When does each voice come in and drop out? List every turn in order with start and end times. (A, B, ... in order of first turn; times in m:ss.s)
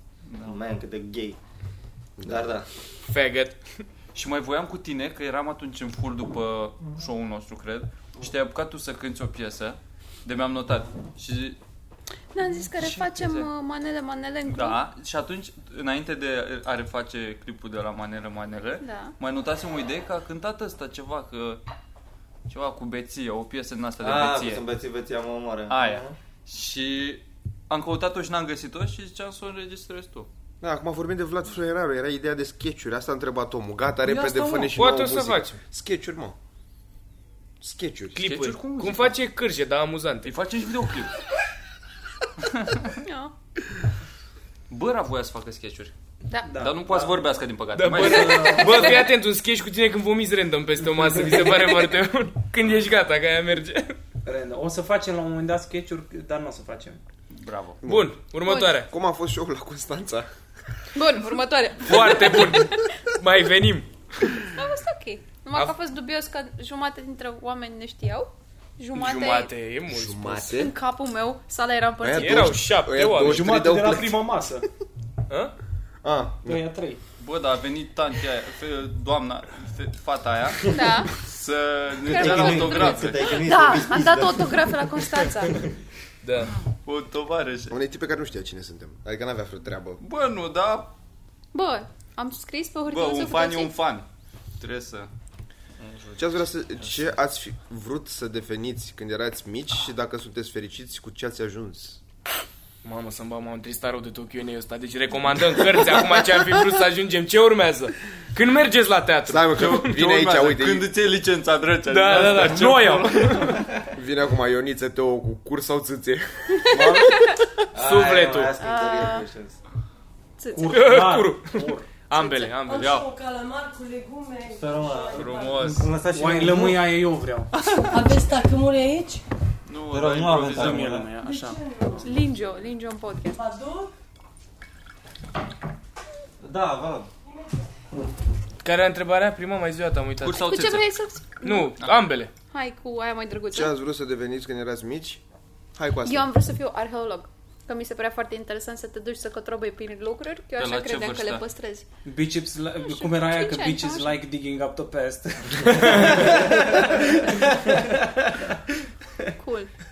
0:00.3-0:00.6 A
0:00.4-0:01.4 B
0:02.2-0:02.5 C
0:02.2-0:02.7 B
0:03.1-0:03.6 D
0:04.1-0:11.6 A
0:12.3-0:14.8 E
0:12.8-0:13.5 A
0:14.4-0:21.6 A
0:18.8-0:19.2 E
0:22.5-0:24.6 A
0:24.0-0:26.2 B
0:25.7-0:30.3 A
0:30.6-0:36.4 C
0:34.0-0:34.8 F
0:34.7-0:35.6 D
0:37.6-0:38.2 C
0:38.2-0:40.3 D
0:38.2-0:39.2 A
0:40.2-0:41.2 A
0:42.4-0:42.9 A
0:43.0-0:43.3 E
0:44.7-0:45.9 A
0:46.5-0:47.2 G
0:46.6-0:48.8 A
0:47.8-0:54.0 D
0:48.0-0:48.8 G
0:54.2-0:57.0 G
0:57.3-0:57.8 A
0:57.8-0:58.2 C
0:57.8-0:58.9 D
0:58.5-0:58.8 E
0:58.7-1:00.3 C
1:01.0-1:03.0 E
1:01.8-1:03.9 D
1:04.4-1:09.5 E
1:08.9-1:10.5 D
1:09.9-1:10.7 C
1:10.4-1:12.5 E
1:12.0-1:14.4 C
1:12.1-1:13.6 D
1:13.2-1:14.7 G
1:15.3-1:15.5 D
1:16.0-1:16.6 C
1:16.4-1:17.0 G
1:17.2-1:23.4 A
1:20.7-1:21.1 E
1:22.0-1:25.6 E
1:22.1-1:25.7 B
1:26.2-1:26.5 D
1:26.8-1:27.8 A
1:27.7-1:30.0 C
1:30.0-1:30.9 A
1:31.5-1:33.7 E
1:32.9-1:34.1 A
1:34.6-1:35.1 A
1:35.8-1:36.1 B
1:36.2-1:42.0 C
1:42.8-1:50.0 D
1:49.3-1:50.9 C
1:49.6-1:53.5 A
1:51.9-1:53.6 D
1:53.2-1:53.7 B
1:54.0-1:57.0 C
1:56.6-1:57.3 E
1:57.7-1:59.6 B
1:57.8-1:58.5 D
1:58.6-1:59.3 E
2:00.4-2:01.0 E
2:00.5-2:01.9 G
2:00.7-2:03.0 D
2:02.1-2:02.6 E
2:02.6-2:05.7 F
2:02.8-2:03.1 A
2:04.5-2:07.0 B
2:05.1-2:05.9 A
2:05.7-2:07.5 G
2:07.6-2:07.9 A
2:07.9-2:09.2 F
2:09.7-2:11.0 A
2:09.9-2:11.1 B
2:10.5-2:12.1 G
2:11.2-2:12.2 F
2:12.0-2:13.4 E
2:13.2-2:13.9 F
2:16.4-2:17.1 B
2:18.6-2:20.5 D
2:20.2-2:20.9 A
2:20.3-2:21.7 E
2:21.4-2:22.3 D
2:22.5-2:23.7 E
2:23.5-2:25.2 C
2:25.8-2:26.3 C
2:26.0-2:31.9 E
2:30.6-2:31.4 A
2:32.0-2:38.6 G
2:32.9-2:34.2 E
2:39.4-2:39.7 E